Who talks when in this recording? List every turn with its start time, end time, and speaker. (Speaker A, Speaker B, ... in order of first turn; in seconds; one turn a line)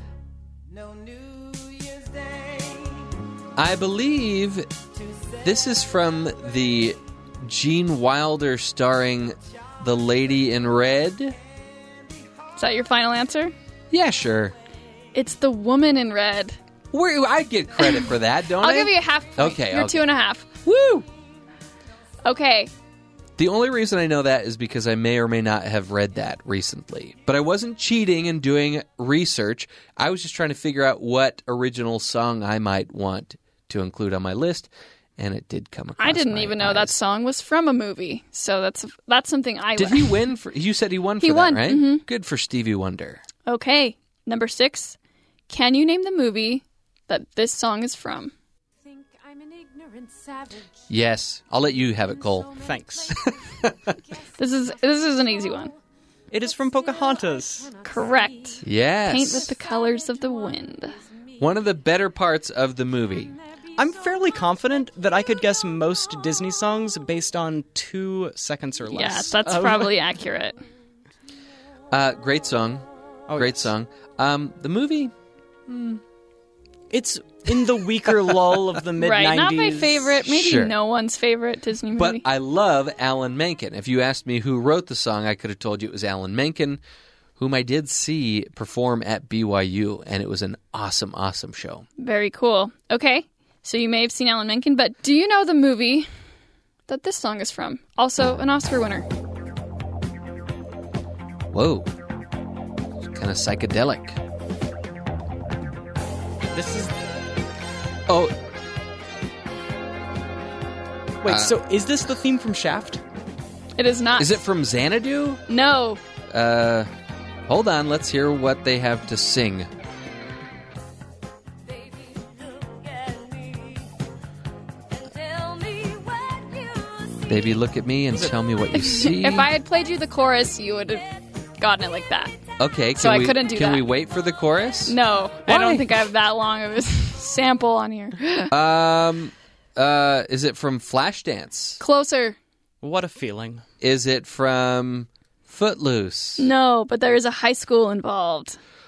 Speaker A: 0.7-3.1
Speaker B: 3.6-4.8
Speaker B: 5.4-11.4
Speaker C: 12.6-13.5
Speaker B: 13.9-14.6
Speaker C: 15.1-16.6
Speaker B: 16.9-20.0
Speaker C: 17.8-20.5
Speaker B: 20.6-21.1
Speaker C: 22.2-22.7
Speaker B: 23.4-37.0
Speaker C: 36.0-40.2
Speaker B: 39.8-43.2
Speaker C: 41.2-42.0
Speaker C: 43.5-45.0
Speaker C: 45.5-48.3
Speaker A: 48.8-50.9
Speaker B: 50.9-52.5
Speaker A: 51.9-55.8
Speaker D: 52.6-53.2
Speaker B: 53.1-54.0
Speaker C: 54.4-55.7
Speaker D: 56.3-57.7
Speaker A: 56.4-58.7
Speaker C: 57.9-61.0
Speaker B: 58.6-59.5
Speaker A: 59.4-61.7
Speaker B: 61.4-63.4
Speaker A: 63.4-64.2
Speaker D: 63.8-69.9
Speaker C: 68.9-70.6
Speaker B: 71.9-75.1
Speaker D: 73.3-73.7
Speaker B: 75.7-76.0
Speaker D: 76.9-80.2
Speaker C: 79.0-82.2
Speaker B: 80.2-80.8
Speaker B: 82.0-86.8
Speaker B: 87.4-91.8
Speaker C: 92.0-96.1
Speaker C: 96.9-99.1
Speaker B: 101.5-101.9
Speaker B: 103.1-104.2
Speaker D: 106.5-106.9
Speaker B: 108.1-108.4
Speaker D: 111.2-113.0
Speaker B: 111.2-111.5
Speaker C: 113.8-114.3
Speaker B: 114.2-115.4
Speaker C: 115.5-116.0
Speaker B: 116.3-116.9
Speaker B: 117.5-119.7
Speaker A: 121.7-124.0
Speaker A: 124.9-127.6
Speaker B: 127.3-129.5
Speaker C: 128.7-131.1
Speaker C: 131.6-132.4
Speaker B: 132.6-136.1
Speaker C: 133.0-133.9
Speaker C: 134.9-138.5
Speaker B: 138.5-141.8
Speaker C: 141.8-142.4
Speaker D: 142.8-143.6
Speaker B: 143.8-146.5
Speaker C: 146.4-148.6